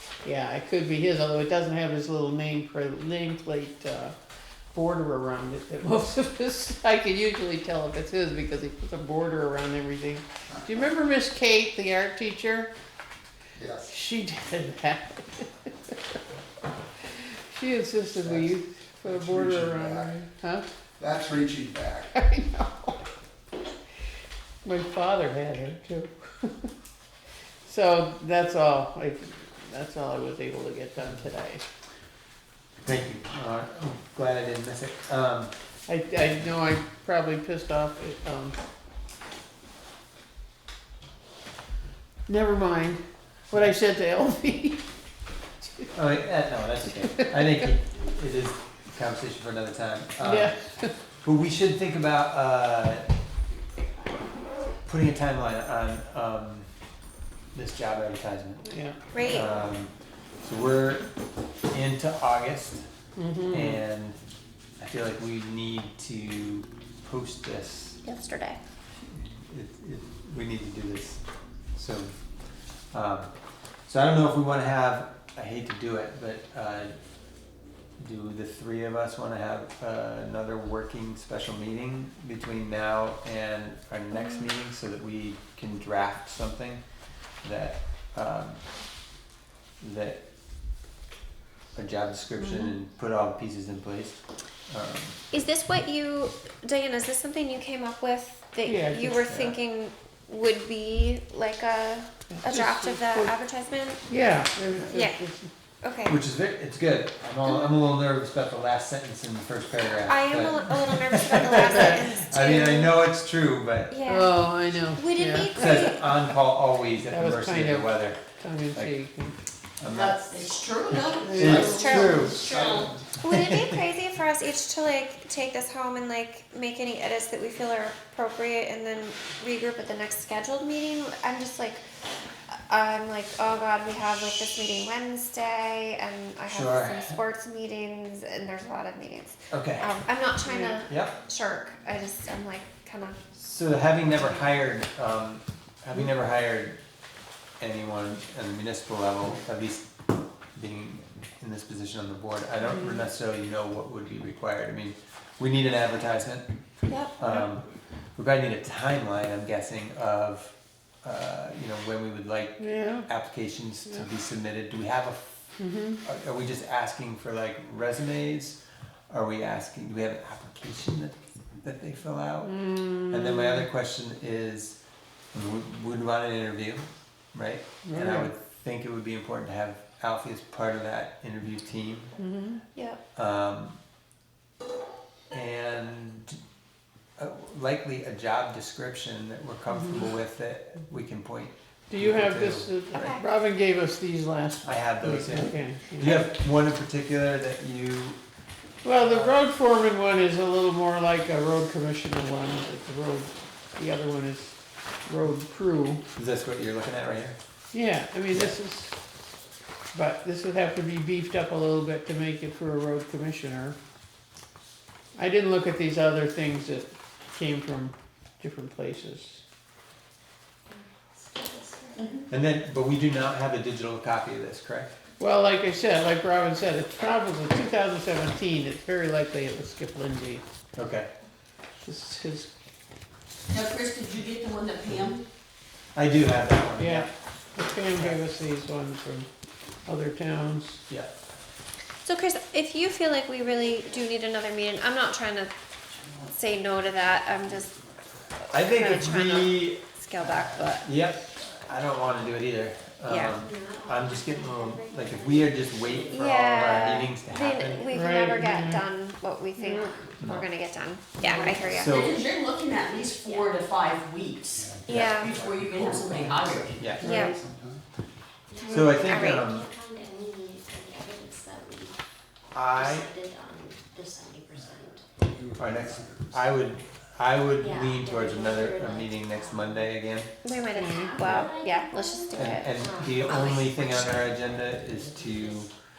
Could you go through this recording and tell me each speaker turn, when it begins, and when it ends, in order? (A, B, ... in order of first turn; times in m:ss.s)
0:00.2-0:04.2 A
0:04.7-0:12.7 A
0:13.6-0:13.9 B
0:13.9-0:15.7 A
0:17.5-0:20.6 A
0:18.2-0:20.2 B
0:21.0-0:22.1 B
0:22.1-0:23.0 A
0:24.6-0:26.7 A
0:27.6-0:31.6 A
0:32.8-0:35.5 C
0:35.9-0:38.6 A
0:42.3-0:44.8 A
0:45.6-0:45.9 A
0:45.9-0:50.5 C
0:47.0-0:47.3 A
0:50.2-0:50.9 A
0:51.2-0:53.1 C
0:54.9-0:56.7 C
0:57.5-0:58.7 C
0:58.7-0:59.0 A
0:59.1-0:59.5 D
0:59.2-1:01.1 C
1:01.7-1:02.8 C
1:03.2-1:03.8 A
1:03.5-1:04.2 C
1:04.8-1:08.0 C
1:08.0-1:08.6 D
1:09.0-1:11.2 C
1:11.8-1:12.1 C
1:12.9-1:13.3 C
1:13.9-1:16.9 C
1:18.0-1:26.8 C
1:27.4-1:28.6 C
1:29.8-1:30.2 C
1:31.8-1:34.2 C
1:32.4-1:32.7 A
1:34.7-1:35.2 C
1:35.3-1:44.0 D
1:38.6-1:39.2 A
1:39.3-1:39.6 C
1:42.3-1:43.3 A
1:44.1-1:45.5 A
1:44.9-1:45.2 D
1:45.8-1:46.2 D
1:46.1-1:54.0 C
1:47.4-1:47.8 D
1:50.1-1:53.0 D
1:51.7-1:52.0 A
1:53.9-1:54.4 D
1:54.1-1:55.5 A
1:55.0-1:56.1 D
1:55.5-1:58.2 C
1:57.1-1:59.4 A
1:59.8-2:03.8 C
1:59.9-2:03.0 E
2:01.1-2:02.5 A
2:01.6-2:02.5 D
2:03.2-2:11.9 D
2:12.5-2:23.2 D
2:16.5-2:17.2 C
2:19.5-2:20.0 C
2:20.5-2:20.8 A
2:20.9-2:21.2 C
2:23.4-2:26.8 C
2:27.6-2:29.9 C
2:30.6-2:36.5 C
2:32.7-2:33.0 A
2:36.9-2:37.1 D
2:37.2-2:40.5 C
2:41.0-2:45.5 C
2:42.6-2:43.1 A
2:45.6-2:46.0 A
2:46.0-2:48.6 C
2:49.1-2:54.8 C
2:52.4-2:53.6 A
2:55.3-2:56.8 C
2:57.3-3:02.1 C
2:57.8-2:58.3 A
3:02.2-3:02.6 A
3:02.8-3:03.0 D
3:03.2-3:03.8 C
3:05.3-3:06.4 C
3:07.2-3:13.1 C
3:09.7-3:10.0 A
3:11.9-3:16.3 A
3:12.9-3:13.2 D
3:14.6-3:18.2 C
3:18.8-3:26.0 A
3:19.0-3:19.4 C
3:26.2-3:27.4 C
3:27.7-3:29.0 A
3:29.9-3:33.8 A
3:35.2-3:39.4 A
3:40.7-3:42.1 F
3:42.3-3:45.0 C
3:45.2-3:50.4 A
3:50.8-3:51.1 C
3:51.8-3:52.5 A
3:53.5-3:55.2 E
3:56.0-3:57.1 C
3:56.8-3:59.3 A
3:57.9-3:58.2 C
3:59.9-4:00.8 A
4:02.0-4:05.5 D
4:06.0-4:08.2 B
4:06.3-4:07.8 D
4:08.4-4:10.9 D
4:08.5-4:17.9 C
4:13.1-4:13.4 D
4:13.4-4:16.2 F
4:16.1-4:22.2 D
4:17.9-4:18.9 A
4:19.6-4:20.0 A
4:20.2-4:20.5 C
4:21.2-4:26.9 E
4:21.3-4:21.9 F
4:21.7-4:22.2 C
4:22.7-4:23.6 F
4:24.5-4:27.8 B
4:24.9-4:25.4 D
4:26.8-4:27.2 C
4:27.0-4:27.4 D
4:28.5-4:32.0 F
4:28.5-4:28.9 E
4:28.7-4:29.7 C
4:28.9-4:29.5 D
4:29.7-4:30.2 E
4:32.5-4:33.1 C
4:32.8-4:34.9 F
4:34.6-4:36.5 B
4:35.6-4:40.3 C
4:37.6-4:39.8 F
4:38.0-4:39.5 E
4:40.4-4:44.2 D
4:40.7-4:41.1 A
4:40.9-4:43.7 F
4:42.3-4:45.7 C
4:42.8-4:43.4 E
4:44.2-4:45.6 E
4:45.0-4:45.6 F